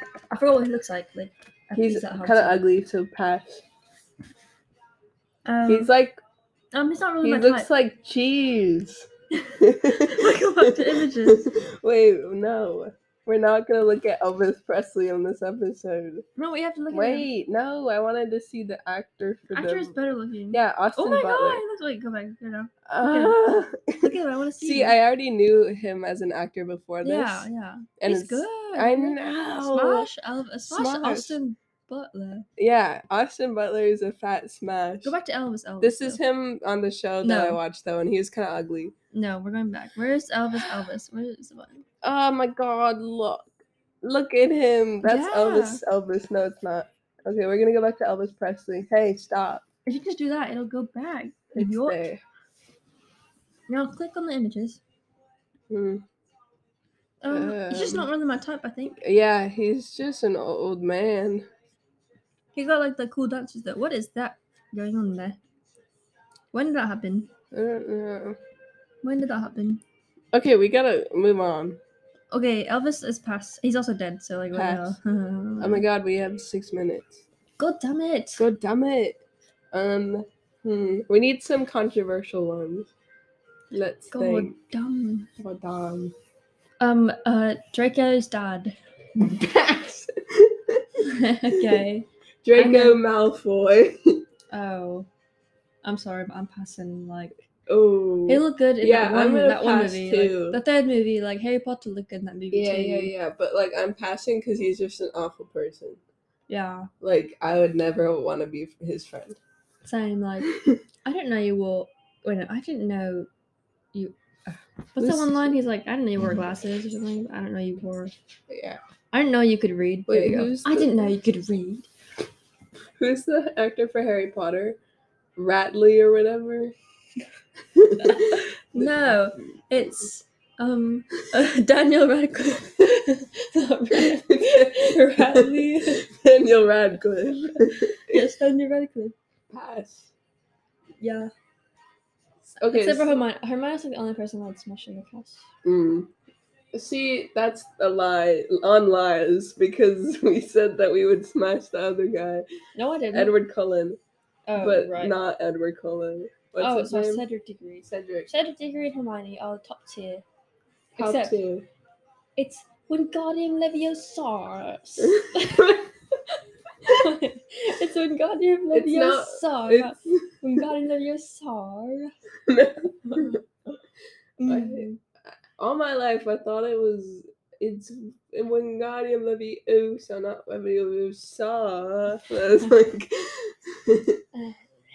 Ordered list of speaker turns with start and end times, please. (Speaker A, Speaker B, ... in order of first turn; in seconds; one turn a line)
Speaker A: 0.3-2.6
Speaker B: 1.7-3.6
Speaker A: 5.4-5.9
Speaker B: 5.7-6.2
Speaker A: 6.7-7.7
Speaker B: 7.2-9.1
Speaker A: 9.3-11.5
Speaker B: 9.6-16.2
Speaker A: 16.4-17.3
Speaker B: 16.9-19.9
Speaker A: 19.5-25.0
Speaker B: 20.5-21.6
Speaker B: 22.9-30.1
Speaker A: 27.0-32.5
Speaker B: 30.6-31.4
Speaker B: 32.6-35.1
Speaker A: 35.0-36.2
Speaker B: 35.8-38.9
Speaker A: 37.2-37.6
Speaker A: 39.1-41.8
Speaker B: 42.0-43.5
Speaker B: 44.0-49.6
Speaker A: 45.0-45.8
Speaker A: 49.8-52.0
Speaker B: 51.5-52.2
Speaker A: 53.7-54.8
Speaker B: 55.7-56.0
Speaker A: 57.2-59.0
Speaker B: 57.3-58.1
Speaker B: 59.0-61.5
Speaker A: 62.5-65.4
Speaker A: 66.5-67.3
Speaker B: 67.5-68.4
Speaker A: 69.0-69.8
Speaker B: 70.3-71.8
Speaker A: 72.3-75.8
Speaker B: 74.5-75.0
Speaker B: 75.6-77.2
Speaker A: 77.6-78.4
Speaker B: 78.4-79.2
Speaker B: 79.7-82.9
Speaker B: 83.7-84.6
Speaker A: 84.1-85.3
Speaker B: 85.4-86.1
Speaker A: 86.8-88.8
Speaker B: 89.2-91.0
Speaker A: 91.0-93.0
Speaker B: 91.5-91.8
Speaker B: 92.4-94.2
Speaker A: 94.5-95.1
Speaker A: 95.8-97.4
Speaker B: 97.7-100.6
Speaker A: 98.3-103.1
Speaker B: 102.5-106.0
Speaker A: 106.5-106.9
Speaker B: 107.0-109.4
Speaker A: 109.8-110.5
Speaker B: 110.5-110.8
Speaker A: 111.0-113.3
Speaker A: 113.9-118.1
Speaker B: 115.0-115.5
Speaker B: 118.5-118.8
Speaker A: 119.1-121.9
Speaker B: 120.1-121.1
Speaker B: 123.0-124.8
Speaker B: 125.3-126.7
Speaker B: 127.7-129.2
Speaker A: 128.0-136.0
Speaker B: 133.9-138.0
Speaker A: 138.1-139.1
Speaker B: 139.5-140.1
Speaker A: 141.0-141.3
Speaker B: 142.4-143.2
Speaker A: 142.6-145.4
Speaker B: 145.6-146.1
Speaker B: 146.7-152.4
Speaker A: 152.7-153.3
Speaker B: 153.1-154.0
Speaker A: 154.5-155.2
Speaker B: 154.6-157.2
Speaker A: 156.6-160.2
Speaker B: 157.8-158.3
Speaker A: 161.0-161.4
Speaker B: 161.0-161.7
Speaker A: 162.3-165.7
Speaker B: 165.0-165.9
Speaker A: 166.8-172.1
Speaker B: 168.7-170.6
Speaker B: 172.5-173.4
Speaker A: 173.1-173.4
Speaker A: 174.4-175.0
Speaker B: 174.4-184.2
Speaker A: 184.3-184.6